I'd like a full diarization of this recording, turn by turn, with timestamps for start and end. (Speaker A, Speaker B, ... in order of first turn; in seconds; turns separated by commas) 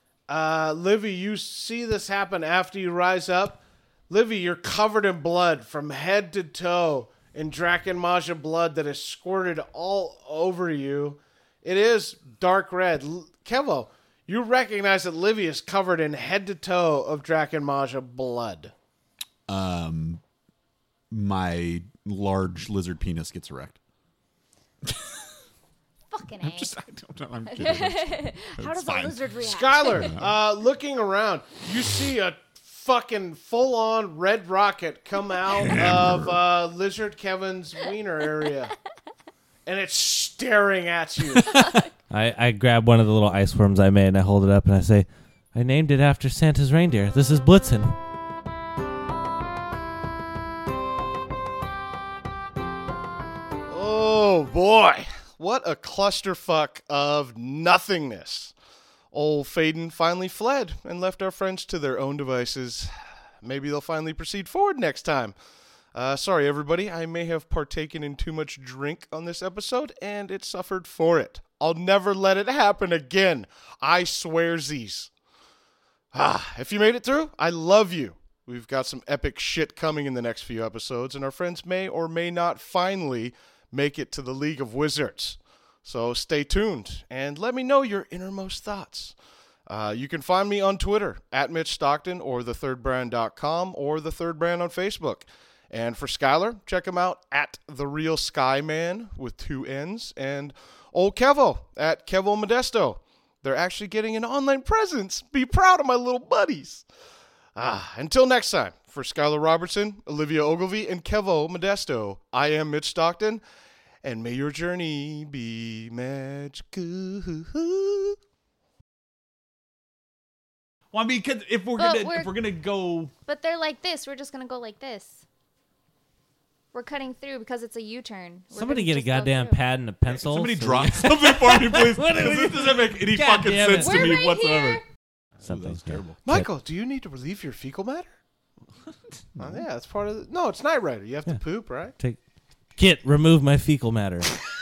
Speaker A: 0.3-18.7, Speaker B: 19.5-20.2, Speaker B: 21.1-23.8, Speaker B: 24.9-25.1, Speaker C: 26.1-26.7, Speaker B: 26.4-29.2, Speaker C: 27.5-30.1, Speaker A: 29.4-38.7, Speaker B: 29.9-30.4, Speaker B: 35.5-36.3, Speaker A: 39.6-41.6, Speaker B: 41.4-41.8, Speaker D: 42.1-48.0, Speaker A: 53.7-58.5, Speaker A: 59.1-65.3, Speaker A: 65.9-75.1, Speaker A: 76.1-89.1, Speaker A: 89.7-106.8, Speaker A: 107.5-113.4, Speaker A: 114.0-118.2, Speaker B: 120.9-123.1, Speaker C: 121.8-122.3, Speaker C: 123.2-125.2, Speaker C: 126.7-129.6, Speaker D: 128.5-134.2, Speaker B: 130.1-134.8, Speaker C: 133.8-134.8, Speaker B: 135.4-136.2, Speaker D: 135.4-136.4, Speaker A: 136.2-138.1, Speaker A: 139.4-141.9, Speaker D: 142.8-144.3